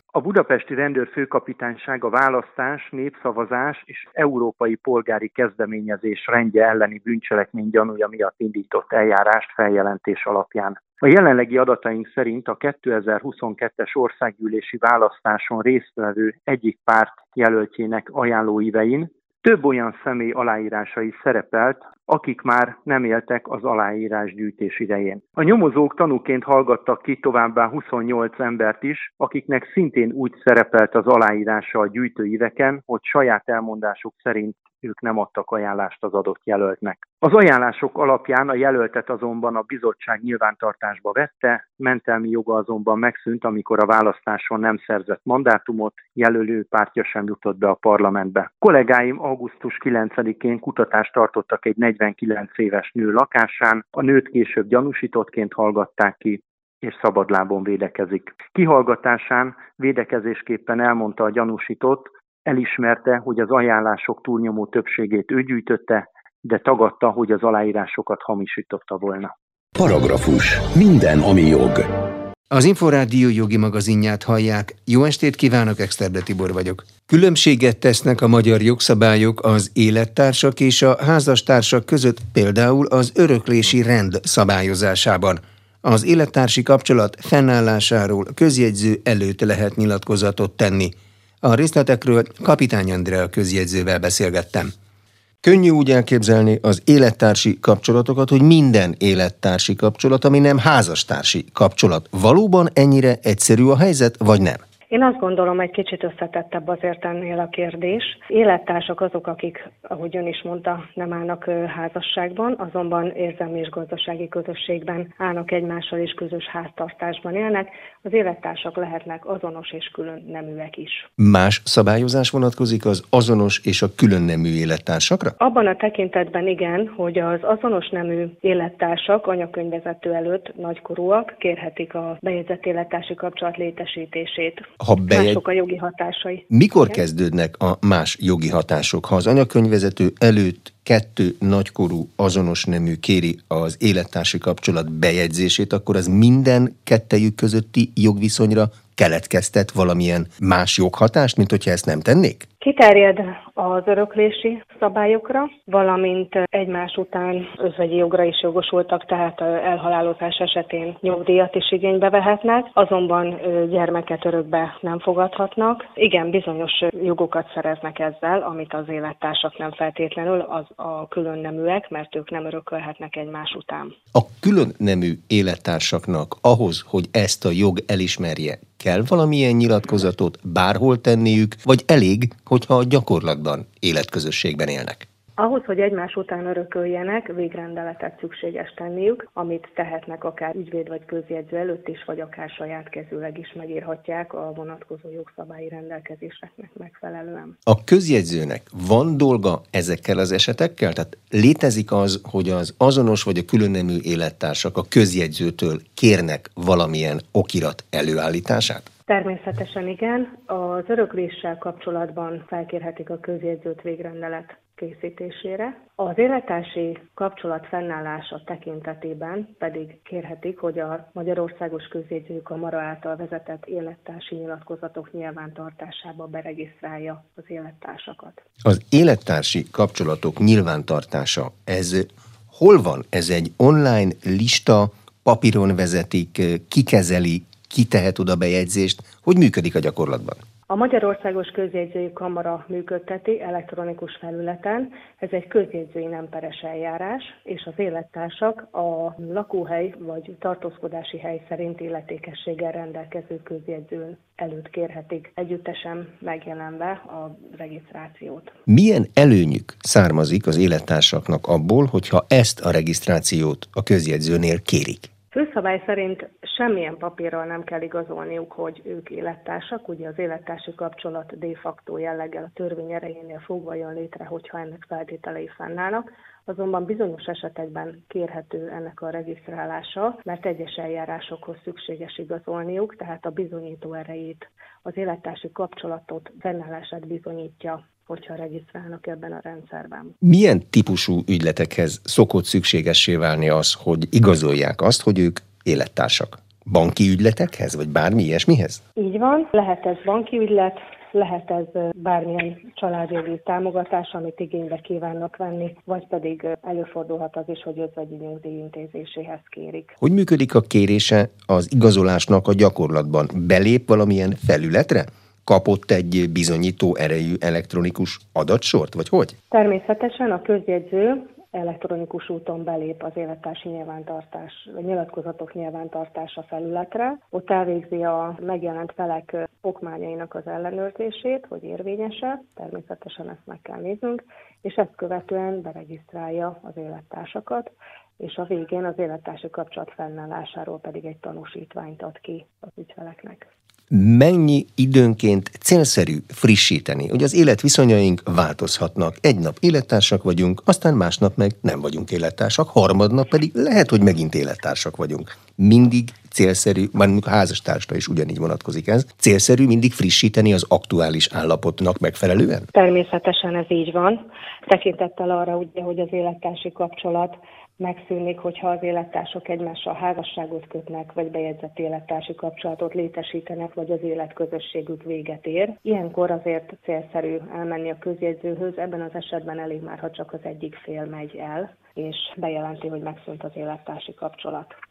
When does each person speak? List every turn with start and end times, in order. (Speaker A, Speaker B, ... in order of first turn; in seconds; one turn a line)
Speaker A: 0.1-69.3
Speaker B: 69.8-71.9
Speaker C: 72.5-94.7
Speaker D: 95.4-104.6
Speaker E: 104.9-121.1
Speaker D: 121.2-125.3
Speaker E: 125.4-137.0
Speaker D: 134.8-135.4
Speaker D: 136.5-152.5
Speaker E: 152.6-173.9
Speaker D: 174.1-185.1
Speaker E: 185.4-197.6
Speaker D: 197.7-208.9
Speaker E: 209.1-228.4
Speaker D: 228.6-240.4
Speaker E: 240.7-258.5
Speaker D: 258.7-265.1
Speaker E: 265.3-290.1
Speaker D: 290.2-298.8
Speaker E: 298.9-309.9
Speaker D: 310.0-319.3
Speaker E: 319.5-343.5
Speaker D: 343.9-362.7
Speaker E: 362.7-384.7